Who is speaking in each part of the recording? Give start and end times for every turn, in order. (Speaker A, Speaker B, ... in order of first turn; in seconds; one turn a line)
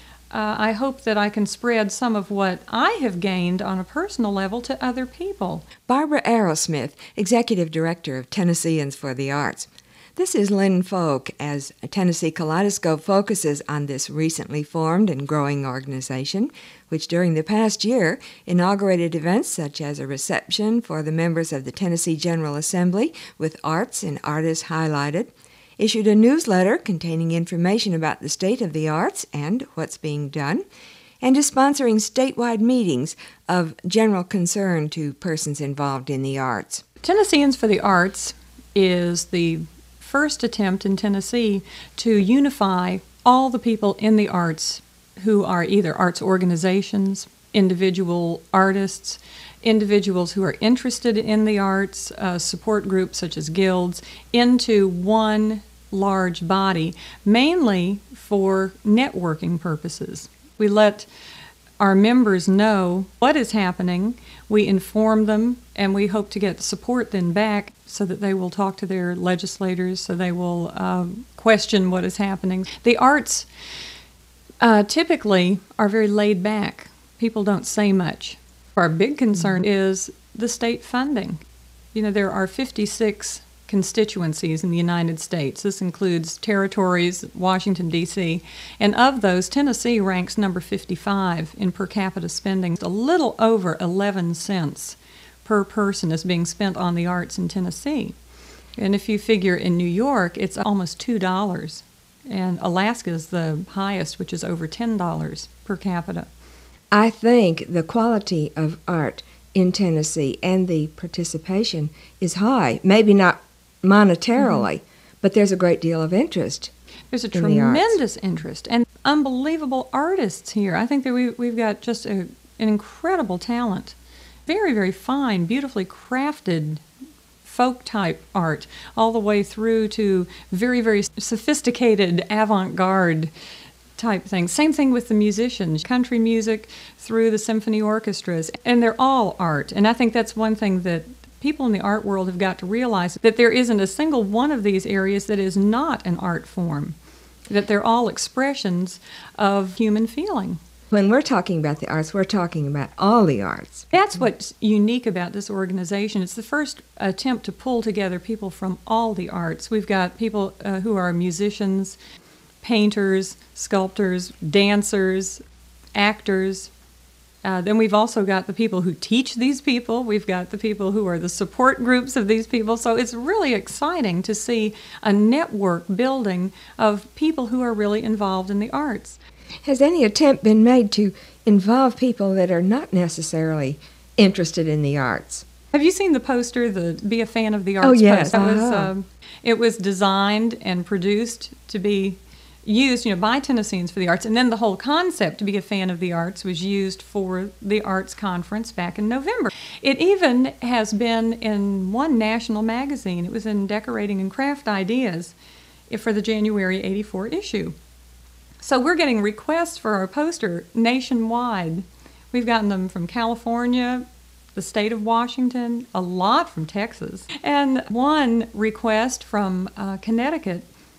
Speaker A: 0.3-5.7
Speaker B: 5.9-30.6
Speaker B: 31.2-36.8
Speaker A: 37.0-61.1
Speaker A: 61.8-73.5
Speaker A: 74.6-81.4
Speaker A: 81.9-98.2
Speaker A: 98.8-106.3
Speaker B: 106.9-116.7
Speaker A: 117.1-124.0
Speaker B: 117.3-118.0
Speaker A: 124.5-126.8
Speaker A: 127.4-133.3
Speaker A: 134.0-147.0
Speaker A: 147.5-150.6
Speaker B: 150.9-153.9
Speaker A: 153.9-162.0
Speaker A: 162.6-165.4
Speaker A: 165.9-166.7
Speaker A: 167.4-179.2
Speaker B: 179.6-185.5
Speaker A: 185.7-205.3
Speaker B: 187.8-188.9
Speaker A: 205.9-207.8
Speaker A: 208.6-220.7